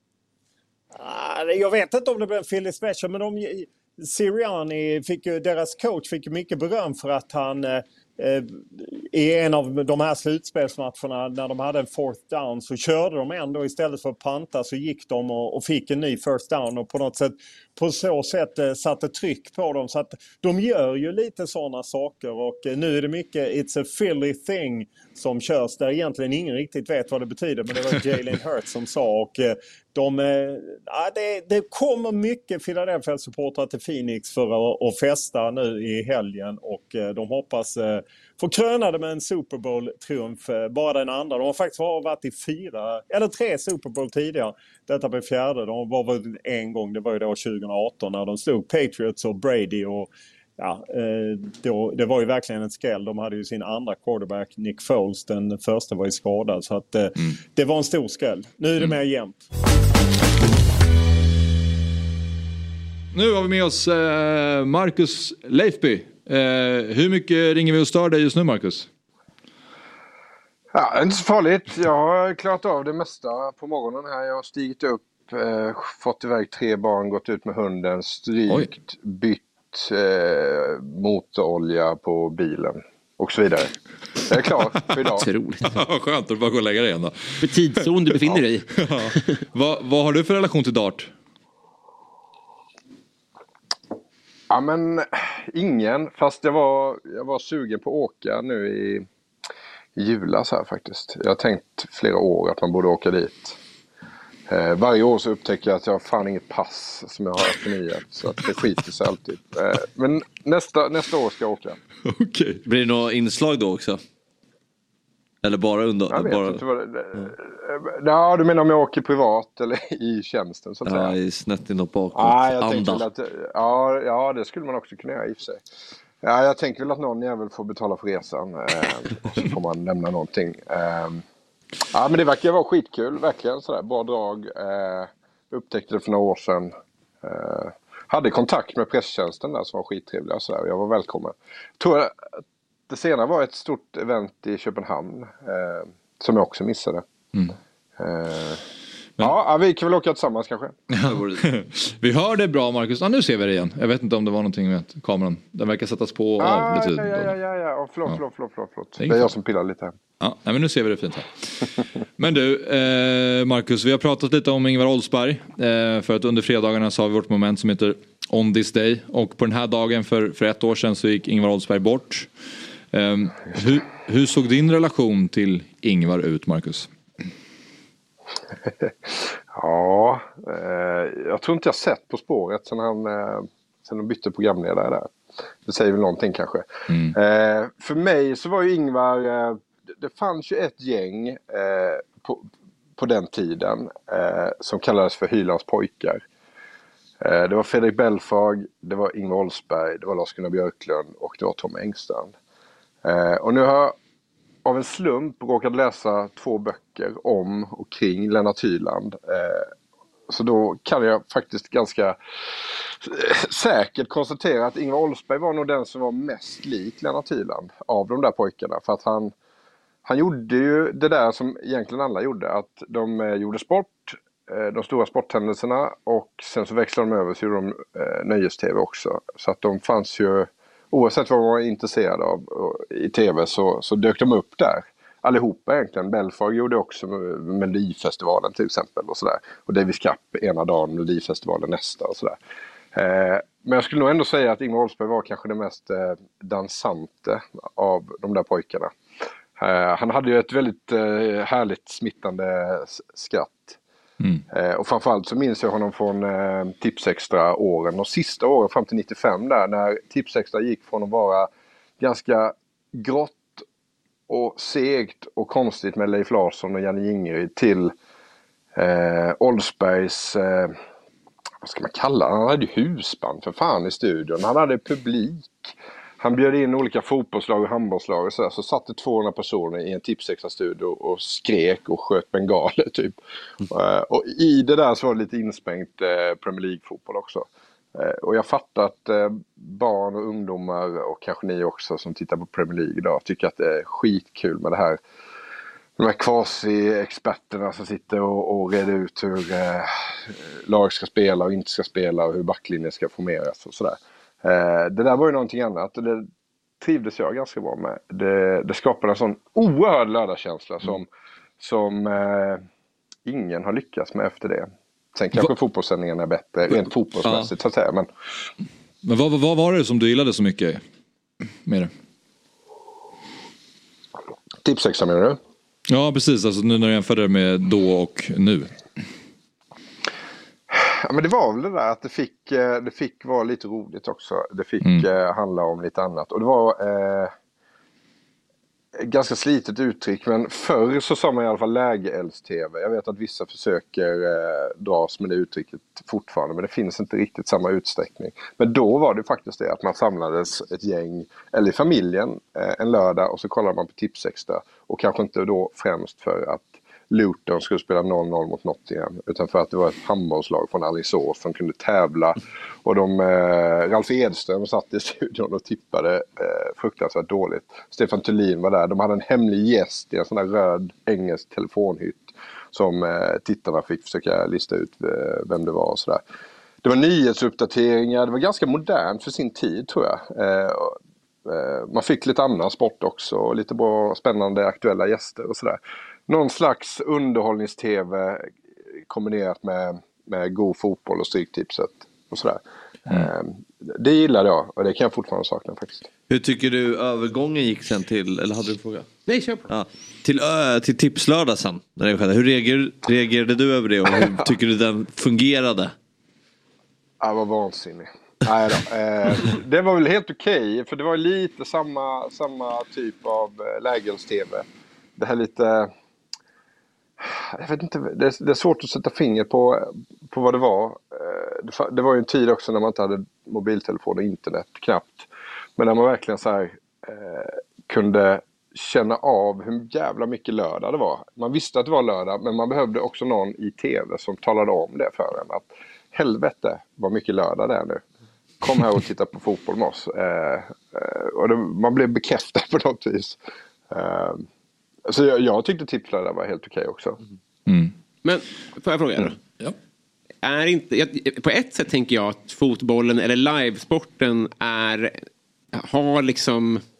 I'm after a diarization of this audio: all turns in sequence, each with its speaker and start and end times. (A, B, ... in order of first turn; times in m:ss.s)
0:00.9-0:59.4 A
1:03.1-1:08.9 B
1:10.7-1:23.7 C
1:24.3-1:25.3 C
1:25.2-1:25.7 D
1:25.6-1:27.6 B
1:27.4-1:29.4 D
1:28.7-1:31.1 B
1:34.5-1:39.0 C
1:40.0-1:43.6 C
1:44.5-1:51.8 C
1:52.0-1:52.6 B
1:52.6-1:54.0 E
1:55.4-1:56.6 E
1:56.1-2:01.2 C
2:00.8-2:03.0 E
2:02.1-2:05.6 C
2:06.2-2:11.2 C
2:11.9-2:22.4 C
2:22.9-2:27.0 C
2:28.0-2:28.6 C
2:29.2-2:30.8 C
2:30.9-2:37.3 B
2:31.0-2:31.4 E
2:36.4-2:40.0 C
2:39.0-2:39.3 B
2:40.2-2:52.3 B
2:52.9-2:56.9 B
2:58.8-3:05.1 C
3:05.6-3:16.2 C
3:17.2-3:22.3 C
3:23.0-3:23.9 C
3:24.6-3:29.7 C
3:30.3-3:39.3 C
3:40.0-4:02.4 C
4:02.9-4:08.9 C
4:09.6-4:13.8 C
4:14.5-4:21.5 C
4:22.0-4:23.6 C
4:24.3-4:27.9 C
4:28.8-4:30.8 C
4:31.6-4:43.2 C
4:43.7-4:55.0 C
4:56.0-5:06.3 C
5:06.8-5:11.1 C
5:11.6-5:12.6 C
5:13.2-5:18.1 C
5:19.0-5:20.8 B
5:21.6-5:21.9 B
5:24.6-5:25.4 C
5:25.9-5:28.7 B
5:30.7-5:37.3 C
5:39.0-6:16.2 C
6:16.8-6:28.5 C
6:29.1-6:36.0 C
6:36.3-6:39.1 E
6:39.3-6:39.6 D
6:39.7-6:45.9 E
6:47.2-6:54.6 C
6:55.2-6:55.9 C
6:57.2-7:18.0 C
7:18.6-7:23.4 C
7:23.9-7:24.4 C
7:25.1-7:27.2 C
7:27.7-7:27.9 B
7:28.2-7:29.4 D
7:30.4-7:35.2 D
7:35.7-7:36.8 D